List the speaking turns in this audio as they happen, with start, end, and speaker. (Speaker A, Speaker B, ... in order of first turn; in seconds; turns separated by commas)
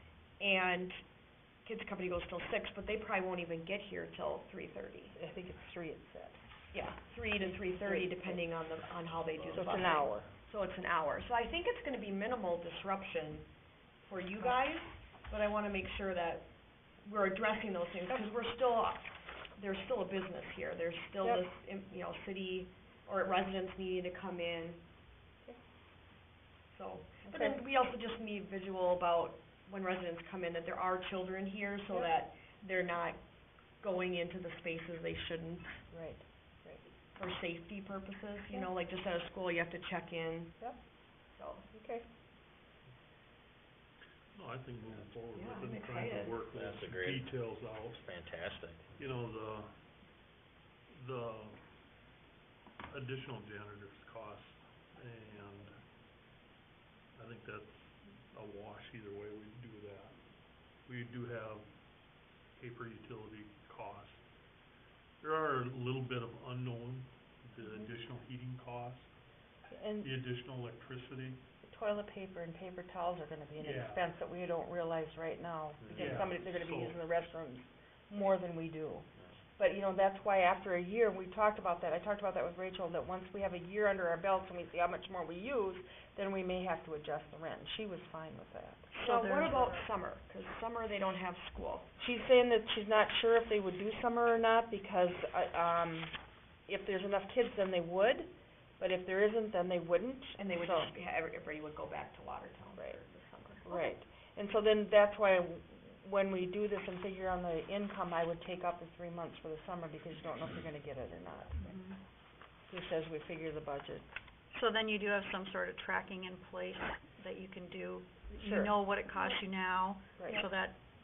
Speaker A: 0.4-1.0, Speaker A: 1.6-5.2, Speaker B: 5.1-6.5, Speaker A: 6.7-13.5, Speaker B: 7.4-8.4, Speaker B: 9.5-10.3, Speaker A: 14.0-16.5, Speaker A: 17.0-24.8, Speaker A: 26.7-33.2, Speaker B: 27.2-27.6, Speaker A: 33.8-35.8, Speaker B: 35.9-36.9, Speaker A: 37.1-40.6, Speaker A: 41.4-41.7, Speaker B: 41.7-42.1, Speaker C: 44.3-48.1, Speaker A: 45.3-46.4, Speaker D: 46.5-47.3, Speaker D: 47.9-48.9, Speaker C: 49.0-49.8, Speaker C: 50.9-51.7, Speaker C: 52.9-55.8, Speaker C: 57.1-60.2, Speaker C: 60.9-61.7, Speaker C: 62.5-64.2, Speaker C: 65.2-69.1, Speaker B: 67.6-68.0, Speaker B: 69.7-70.2, Speaker C: 70.0-71.5, Speaker B: 71.6-88.9, Speaker C: 73.6-74.1, Speaker D: 75.8-76.3, Speaker C: 75.9-77.1, Speaker A: 88.9-91.9, Speaker E: 89.0-89.9, Speaker B: 92.0-96.2, Speaker B: 96.7-100.9, Speaker A: 100.4-103.7, Speaker B: 103.7-111.8, Speaker E: 111.6-112.0, Speaker B: 112.7-114.1, Speaker E: 114.5-120.8, Speaker B: 118.4-118.8, Speaker B: 120.2-120.5